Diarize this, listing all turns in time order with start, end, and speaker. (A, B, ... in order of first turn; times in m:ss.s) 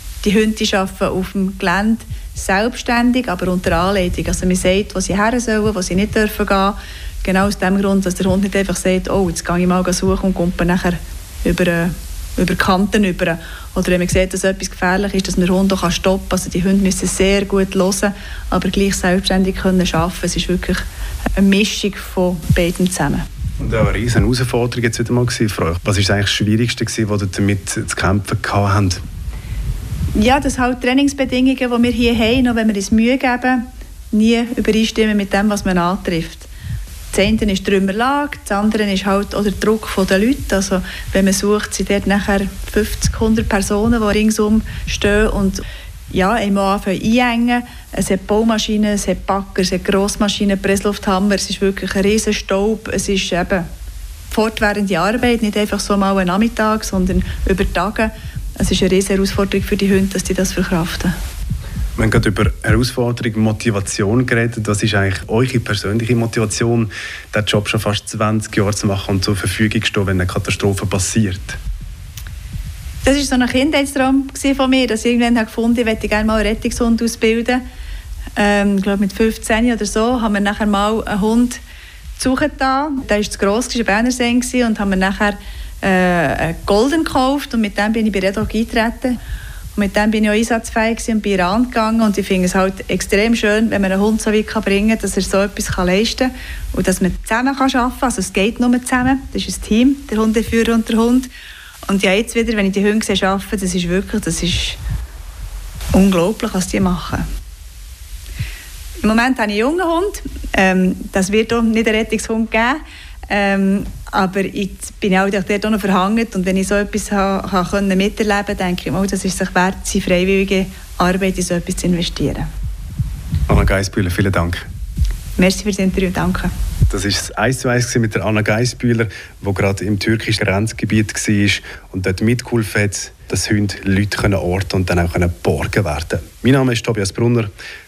0:00.2-0:20.8 A
0:21.4-0:23.2 A
0:23.6-0:29.0 B
0:30.2-0:36.5 A
0:37.1-0:53.7 A
0:54.3-1:01.1 A
1:02.0-1:11.6 B
1:13.0-1:17.6 A
1:18.4-1:21.6 A
1:22.2-1:29.2 A
1:29.8-1:41.3 A
1:41.9-1:44.8 A
1:45.9-1:47.2 A
1:49.0-2:02.5 A
2:03.5-2:04.7 B
2:05.4-2:06.5 A
2:06.9-2:17.5 B